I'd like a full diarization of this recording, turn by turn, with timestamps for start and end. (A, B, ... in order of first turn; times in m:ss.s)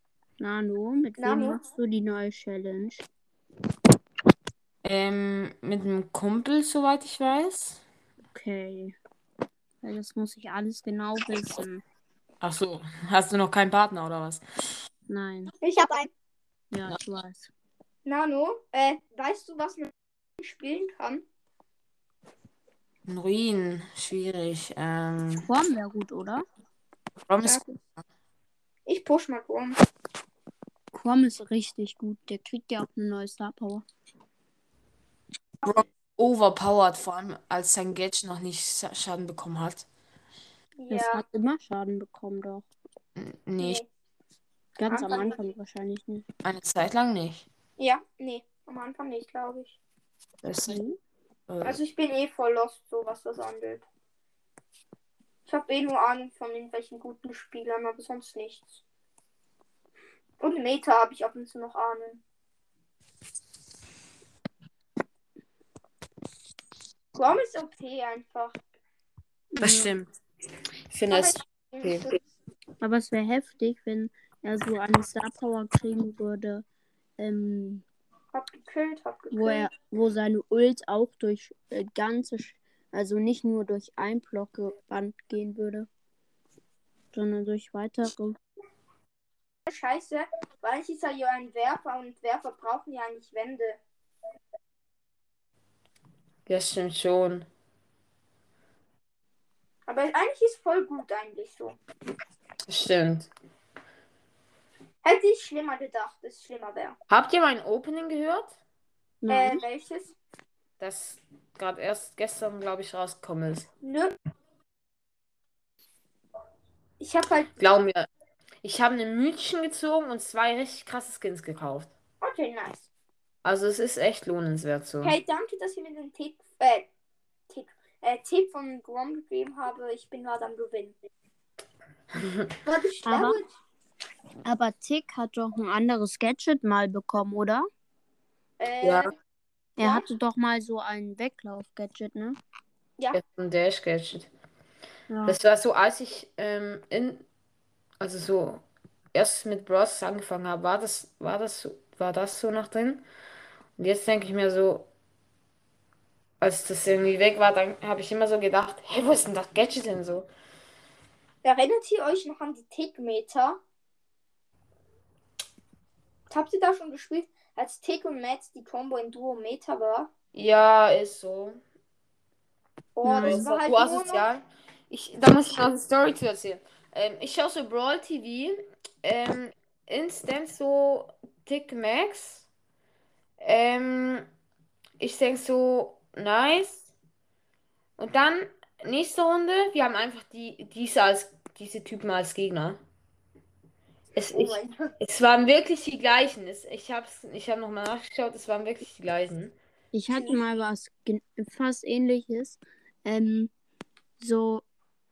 0:00.4-0:03.0 A
0:01.2-0:01.6 B
0:04.8-0:07.8 C
0:08.3-0:09.0 A
0:09.8-0:11.8 A
0:12.4-0:14.4 C
0:15.1-0:15.5 A
0:15.6-0:16.1 B
0:16.7-0:17.5 A
0:18.0-0:21.2 B
0:23.1-0:25.5 C
0:25.5-0:26.4 A
0:27.3-0:28.0 C
0:27.4-0:27.7 B
0:28.9-0:29.8 B
0:30.9-0:33.8 A
0:35.6-0:39.9 C
0:40.8-0:41.2 B
0:40.9-0:42.6 A
0:43.2-0:43.8 C
0:43.6-0:43.9 B
0:44.8-0:46.2 A
0:44.9-0:45.4 B
0:46.4-0:47.5 C
0:47.8-0:49.8 B
0:50.4-0:50.8 C
0:50.7-0:51.0 A
0:51.5-0:51.8 C
0:51.6-0:53.8 B
0:55.5-0:58.8 B
1:00.4-1:02.2 B
1:07.2-1:08.6 B
1:09.5-1:10.0 A
1:09.6-1:10.1 C
1:10.9-1:12.1 C
1:11.1-1:12.2 B
1:12.8-1:16.6 A
1:17.2-1:17.8 A
1:18.3-1:19.7 B
1:19.3-1:25.9 A
1:27.1-1:28.4 A
1:29.7-1:33.8 B
1:36.5-1:37.5 C
1:39.9-1:41.8 B
1:42.7-1:43.3 C
1:45.0-1:47.0 B
1:47.1-1:48.6 C
1:49.2-1:49.6 A
1:49.3-1:50.2 B
1:50.8-1:53.7 C
1:53.8-1:54.2 B
1:57.0-1:57.5 B
1:57.6-1:58.1 C
1:58.6-2:01.9 C
2:02.2-2:02.9 B
2:03.4-2:05.2 C
2:05.0-2:06.9 B
2:07.5-2:11.0 B
2:12.1-2:12.5 C
2:12.6-2:13.5 B
2:13.0-2:13.4 A
2:14.4-2:17.7 A
2:18.6-2:19.1 B
2:18.8-2:19.1 C
2:19.8-2:22.4 A
2:19.8-2:20.1 B
2:23.1-2:24.3 C
2:25.1-2:25.4 A
2:25.3-2:27.2 C
2:28.0-2:28.6 C
2:29.1-2:33.0 C
2:33.8-2:34.9 C
2:36.4-2:40.3 C
2:41.4-2:43.6 B
2:46.3-2:50.1 B
2:50.3-2:51.6 C
2:53.0-2:54.3 B
2:53.0-2:53.4 A
2:53.1-3:02.5 C
3:03.4-3:04.3 C
3:05.0-3:06.9 C
3:08.0-3:12.8 C
3:14.2-3:19.6 C
3:14.3-3:15.0 B
3:19.9-3:23.5 A
3:20.1-3:20.4 B
3:24.2-3:24.6 A